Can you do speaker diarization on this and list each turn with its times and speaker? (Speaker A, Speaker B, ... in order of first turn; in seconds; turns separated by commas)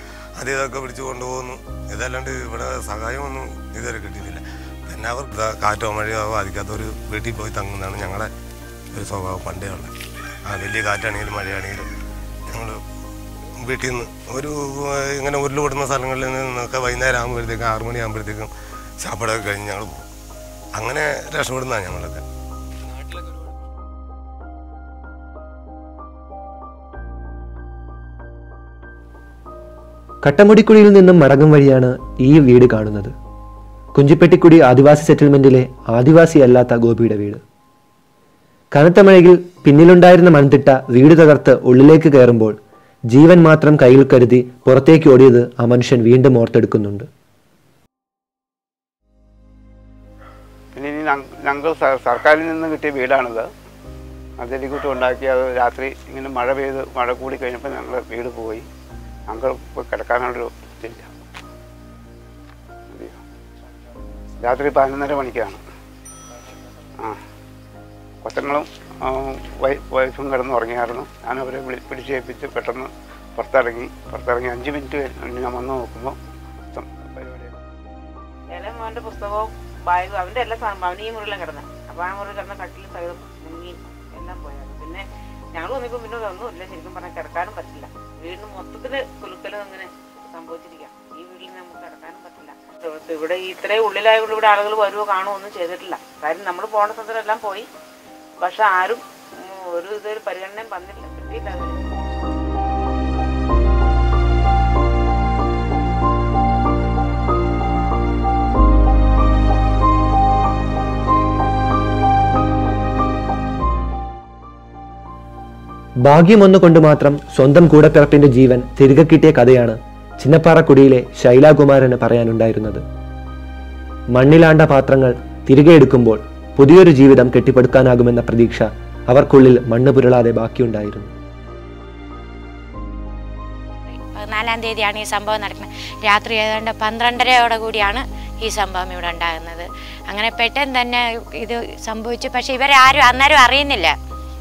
Speaker A: 0.4-8.3, Speaker A: 8.9-9.9, Speaker A: 10.5-11.9, Speaker A: 12.5-12.8, Speaker A: 13.7-18.5, Speaker A: 19.0-20.1, Speaker A: 20.8-22.2, Speaker B: 30.2-33.1, Speaker B: 34.0-37.4, Speaker B: 38.7-42.5, Speaker B: 43.1-47.1, Speaker C: 50.8-53.5, Speaker C: 54.4-58.6, Speaker C: 59.3-61.1, Speaker C: 64.4-65.6, Speaker C: 68.2-76.2, Speaker C: 76.8-77.6, Speaker D: 78.5-97.7, Speaker D: 98.4-102.2, Speaker B: 116.0-122.8, Speaker B: 124.1-131.1, Speaker E: 133.9-143.9